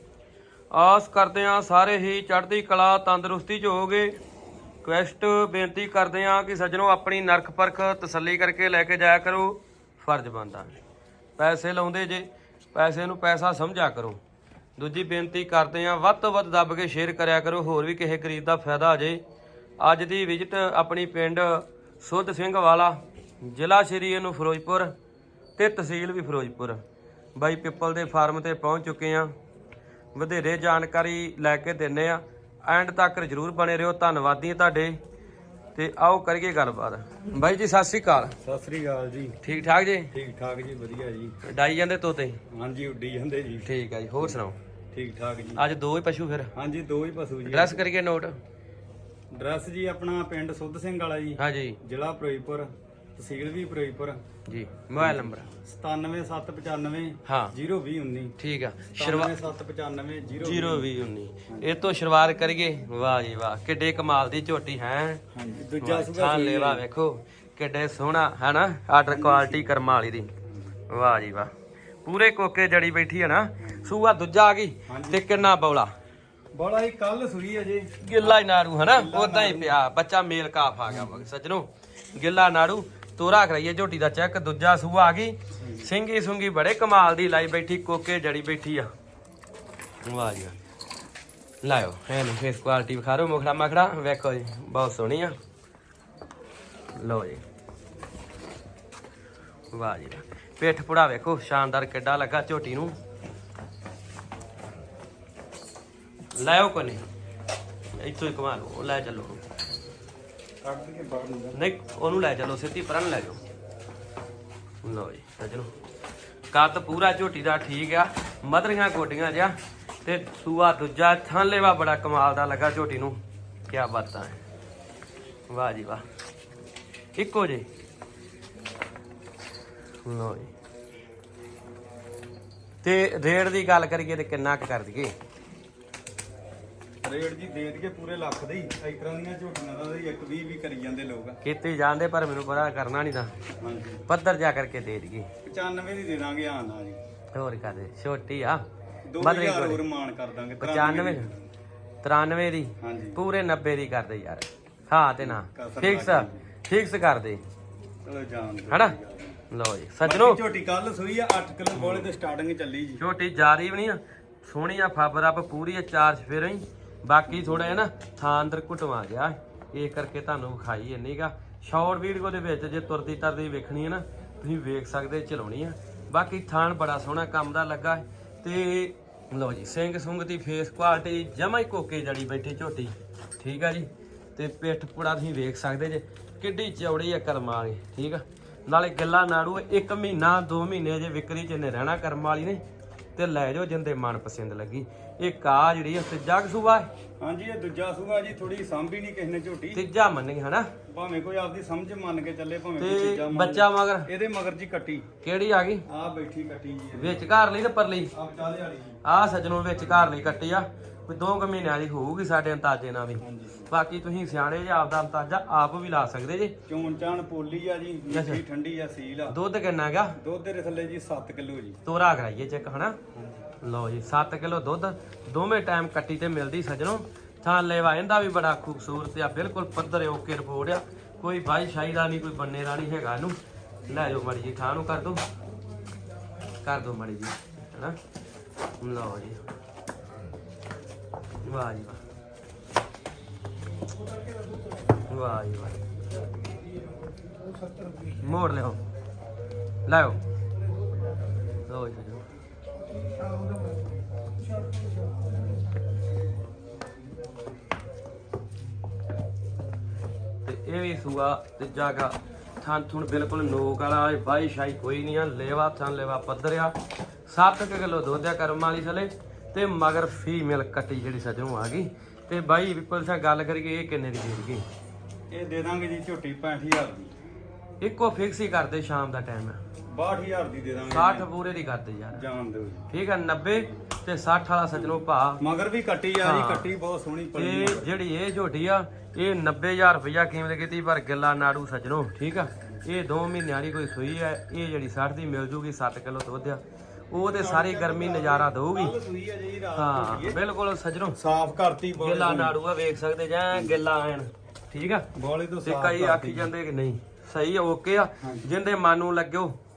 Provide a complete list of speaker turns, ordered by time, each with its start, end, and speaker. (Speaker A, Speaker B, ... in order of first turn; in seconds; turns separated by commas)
Speaker A: 0.7-4.2, Speaker A: 4.8-10.8, Speaker A: 11.4-14.2, Speaker A: 14.8-19.2, Speaker A: 19.8-24.9, Speaker A: 25.6-26.8, Speaker A: 27.4-29.3, Speaker A: 30.1-35.0, Speaker A: 35.8-38.4, Speaker B: 38.4-39.4, Speaker A: 39.4-40.1, Speaker B: 40.1-41.4, Speaker A: 41.4-42.4, Speaker B: 42.5-43.7, Speaker A: 43.6-44.6, Speaker B: 44.9-45.6, Speaker A: 45.6-46.5, Speaker B: 46.5-47.8, Speaker A: 47.5-48.4, Speaker B: 49.3-54.2, Speaker A: 51.4-51.8, Speaker A: 54.5-55.5, Speaker B: 55.0-58.3, Speaker A: 57.2-57.5, Speaker A: 58.4-59.4, Speaker B: 58.9-60.9, Speaker A: 60.4-65.2, Speaker B: 65.3-66.8, Speaker A: 65.8-70.3, Speaker B: 69.1-69.8, Speaker A: 70.9-71.5, Speaker A: 72.0-75.9, Speaker B: 73.6-73.9, Speaker B: 74.9-75.3, Speaker B: 76.5-79.8, Speaker A: 78.0-88.9, Speaker B: 85.5-85.9, Speaker A: 90.0-90.5, Speaker A: 91.6-95.3, Speaker A: 97.0-97.4, Speaker A: 99.7-102.9, Speaker A: 106.3-107.0, Speaker A: 108.0-109.4, Speaker B: 110.6-111.6, Speaker A: 111.5-113.4, Speaker A: 114.8-115.7, Speaker A: 116.5-124.4, Speaker A: 125.5-126.0, Speaker A: 127.2-127.7, Speaker A: 130.0-130.5, Speaker A: 132.8-135.1, Speaker B: 137.0-141.4, Speaker A: 141.4-143.3, Speaker B: 143.6-144.0, Speaker A: 144.1-145.3, Speaker B: 145.4-147.0, Speaker A: 147.3-148.6, Speaker B: 149.1-151.5, Speaker A: 149.2-149.8, Speaker A: 150.6-151.3, Speaker A: 152.0-157.4, Speaker B: 152.8-153.2, Speaker B: 155.2-156.4, Speaker B: 158.0-159.4, Speaker A: 158.7-158.9, Speaker A: 159.5-160.4, Speaker B: 160.0-163.0, Speaker A: 161.7-162.1, Speaker A: 163.0-192.6, Speaker B: 167.3-167.7, Speaker A: 193.2-196.9, Speaker B: 197.2-199.8, Speaker A: 199.7-200.7, Speaker B: 200.9-205.1, Speaker A: 202.8-204.1, Speaker A: 205.2-205.8, Speaker B: 205.8-207.3, Speaker A: 206.9-208.1, Speaker B: 208.1-209.0, Speaker A: 209.0-216.6, Speaker B: 209.8-210.2, Speaker B: 213.2-213.7, Speaker B: 216.7-219.4, Speaker A: 218.1-218.4, Speaker A: 219.3-220.2, Speaker B: 220.2-221.8, Speaker A: 221.8-223.0, Speaker B: 223.1-223.4, Speaker A: 223.6-233.3, Speaker A: 233.9-235.2, Speaker A: 236.6-238.0, Speaker A: 238.8-239.4, Speaker A: 241.4-242.0, Speaker A: 245.1-245.8, Speaker A: 248.1-248.8, Speaker A: 249.9-250.2, Speaker A: 251.7-252.2, Speaker A: 260.4-266.8, Speaker A: 267.3-274.6, Speaker B: 275.3-277.1, Speaker A: 277.8-279.6, Speaker B: 279.9-281.3, Speaker A: 280.9-282.2, Speaker B: 282.1-282.9, Speaker A: 282.9-285.4, Speaker B: 284.7-288.0, Speaker A: 286.2-286.7, Speaker A: 287.3-298.9, Speaker B: 297.2-300.4, Speaker A: 299.7-301.2, Speaker B: 301.1-302.6, Speaker A: 302.0-305.1, Speaker B: 303.5-303.8, Speaker B: 305.1-306.5, Speaker A: 305.6-309.5, Speaker B: 308.2-308.5